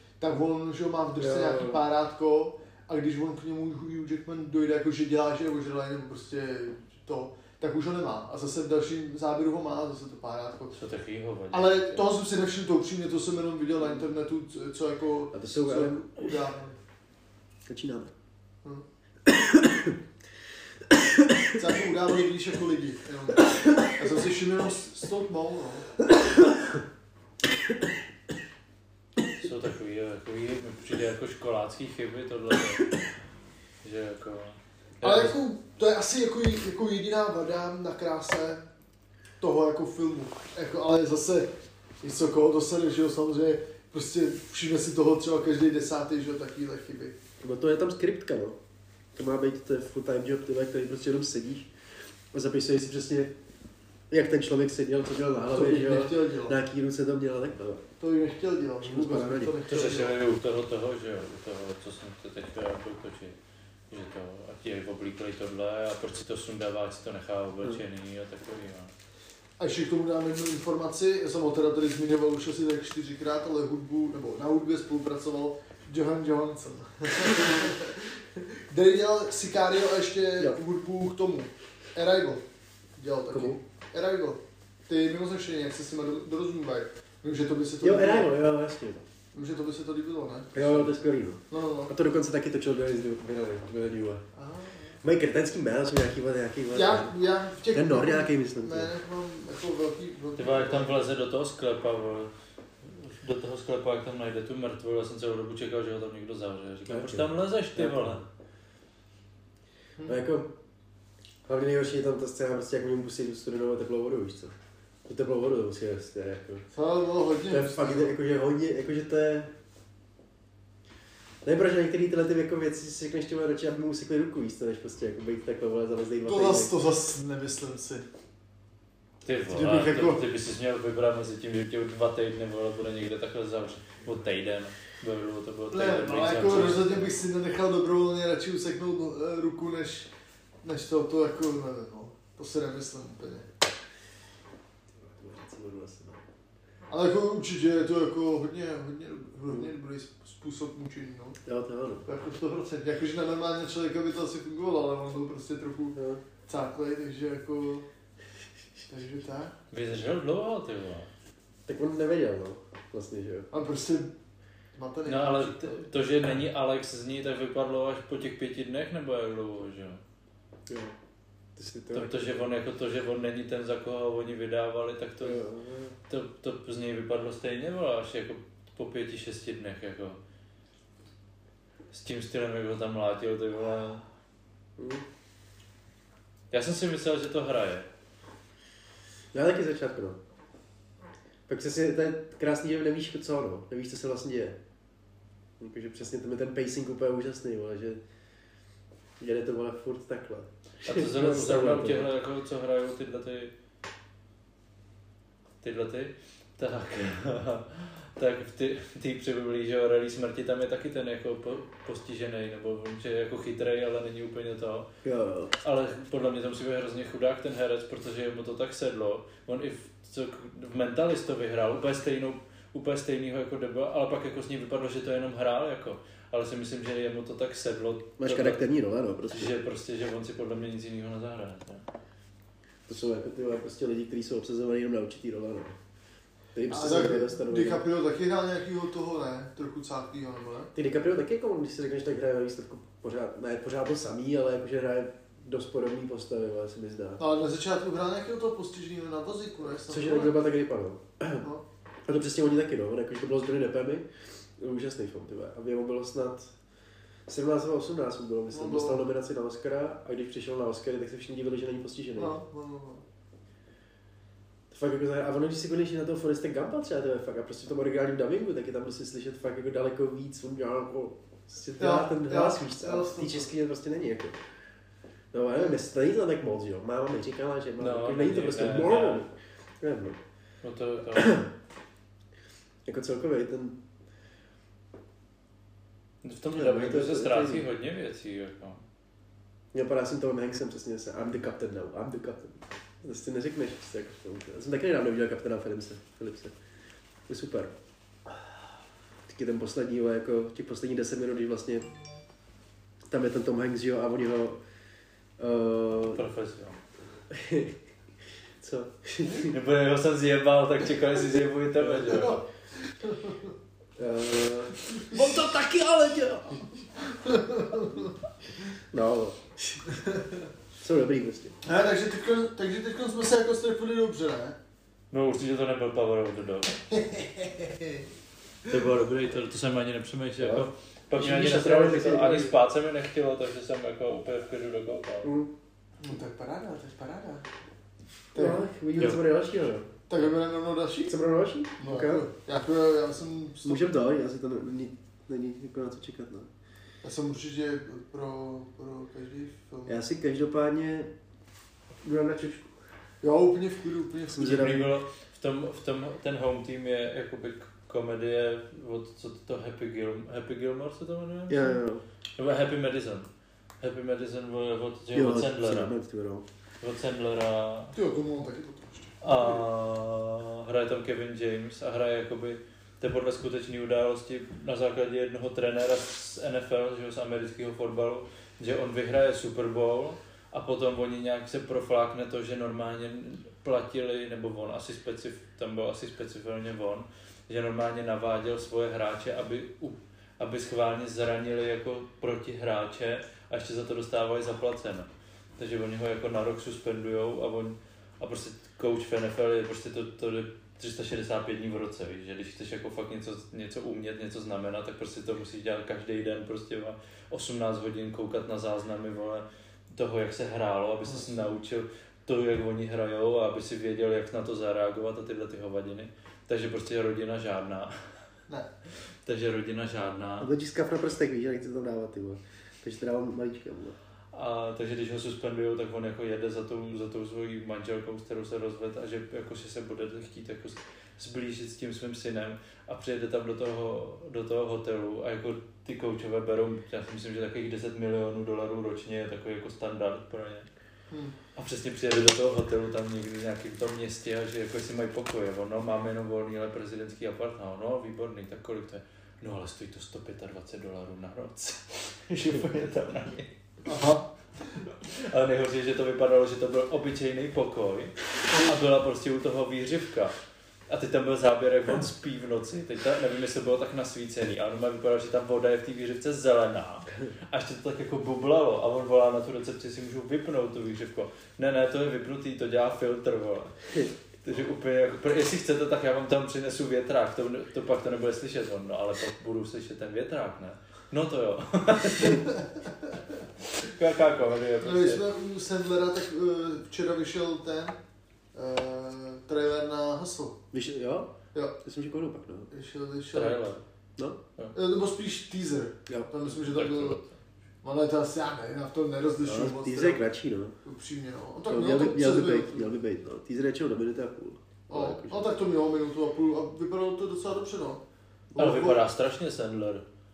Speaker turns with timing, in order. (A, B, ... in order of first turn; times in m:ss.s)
0:00.2-0:10.8 A
0:01.2-0:01.8 B
0:10.7-0:12.0 C
0:11.5-0:16.8 A
0:15.3-0:16.3 B
0:17.7-0:18.1 B
0:19.2-0:20.0 B
0:20.9-0:21.5 B
0:21.5-0:25.9 A
0:29.4-0:32.9 C
0:33.8-0:35.4 C
0:35.0-0:38.6 A
0:39.4-0:47.2 A
0:47.4-0:48.6 B
0:49.1-0:51.7 B
0:52.3-0:53.3 B
0:54.1-0:57.8 B
0:55.5-0:56.6 A
0:58.0-1:00.2 A
0:58.8-0:59.6 B
0:59.7-1:03.4 C
1:03.9-1:08.9 C
1:09.6-1:22.4 A
1:23.0-1:28.3 A
1:23.3-1:23.6 B
1:27.8-1:29.0 B
1:29.3-1:30.9 A
1:30.5-1:34.2 B
1:31.5-1:31.9 A
1:34.3-1:35.0 A
1:35.0-1:37.1 B
1:36.7-1:41.0 A
1:37.7-1:38.9 B
1:40.4-1:42.3 C
1:42.8-1:48.2 C
1:46.9-1:48.2 B
1:50.0-1:50.5 B
1:51.4-1:54.5 B
1:55.0-1:56.6 B
1:56.7-1:58.2 A
1:57.5-1:59.5 B
2:01.4-2:06.7 B
2:06.2-2:08.0 A
2:09.2-2:17.1 C
2:09.5-2:10.2 A
2:15.7-2:20.1 A
2:20.6-2:23.5 A
2:24.9-2:26.2 B
2:26.9-2:31.4 A
2:31.4-2:32.0 B
2:32.0-2:37.8 A
2:35.9-2:36.2 B
2:38.9-2:39.5 A
2:39.7-2:41.1 C
2:41.7-2:43.5 B
2:43.5-2:44.1 A
2:44.7-2:45.8 A
2:45.0-2:50.0 C
2:50.7-2:51.0 B
2:51.6-2:52.4 B
2:51.9-2:55.4 C
2:55.2-2:55.9 B
2:56.1-3:00.2 C
3:01.9-3:04.0 C
3:04.8-3:05.0 B
3:06.5-3:07.9 C
3:09.3-3:10.2 B
3:11.5-3:14.6 B
3:15.6-3:18.0 B
3:19.2-3:22.1 B
3:20.8-3:23.5 C
3:25.6-3:34.9 C
3:35.0-3:35.5 B
3:35.6-3:48.6 C
3:48.2-3:49.5 B
3:49.3-3:51.8 C
3:52.9-3:55.8 B
3:56.5-3:57.8 B
3:56.7-4:00.7 A
4:00.7-4:07.2 B
4:07.2-4:10.4 A
4:09.9-4:11.4 B
4:12.0-4:16.5 B
4:17.3-4:22.4 B
4:18.5-4:19.0 A
4:22.2-4:23.0 A
4:24.7-4:34.4 B
4:31.8-4:33.5 A
4:35.3-4:40.2 B
4:37.8-4:39.2 C
4:40.6-4:41.5 C
4:41.1-4:41.5 B
4:42.8-4:43.8 B
4:46.2-4:48.8 C
4:46.5-4:47.6 B
4:49.7-4:56.5 B
4:57.3-4:57.7 B
4:59.3-5:01.9 B
5:03.1-5:04.6 B
5:05.4-5:06.2 B
5:06.1-5:06.8 C
5:07.3-5:07.8 B
5:08.6-5:09.5 B
5:09.4-5:12.4 C
5:11.8-5:12.3 B
5:12.0-5:13.5 A
5:14.0-5:16.5 B
5:14.9-5:15.4 A
5:17.0-5:18.1 A
5:18.9-5:19.9 B
5:19.9-5:20.4 A
5:20.8-5:21.6 B
5:21.6-5:24.6 A
5:25.1-5:26.8 C
5:26.9-5:28.0 A
5:28.7-5:35.3 C
5:30.4-5:32.5 B
5:35.2-5:35.5 B
5:36.0-5:37.5 A
5:38.3-5:38.6 A
5:38.3-5:39.9 B
5:40.1-5:41.2 A
5:41.1-5:42.3 B
5:41.8-5:43.9 A
5:43.6-5:46.5 B
5:47.0-5:50.0 A
5:49.9-5:51.1 B
5:52.0-5:52.7 B
5:53.2-5:54.9 A
5:54.3-5:54.9 B
5:54.4-6:01.8 C
6:01.5-6:02.0 B
6:02.4-6:03.3 C
6:03.8-6:05.9 C
6:05.1-6:06.4 B
6:06.8-6:07.9 C
6:07.9-6:09.6 A
6:09.2-6:58.0 C
6:51.0-6:51.4 A
6:59.2-7:00.5 C
7:00.4-7:04.0 B
7:04.3-7:20.7 C
7:21.1-7:21.4 A
7:21.5-7:33.5 C
7:33.8-7:34.3 A
7:35.0-7:40.4 C
7:40.9-8:02.5 C
8:02.2-8:03.2 A
8:03.8-8:05.2 C
8:04.8-8:08.0 A
8:08.5-8:10.6 A
8:10.7-8:12.7 B
8:12.7-8:13.7 A
8:13.3-8:13.8 C
8:14.7-8:17.2 A
8:16.5-8:17.4 C
8:17.8-8:20.2 A
8:19.4-8:20.8 B
8:20.8-8:22.9 A
8:21.7-8:25.5 B
8:24.9-8:29.0 A
8:28.6-8:30.0 C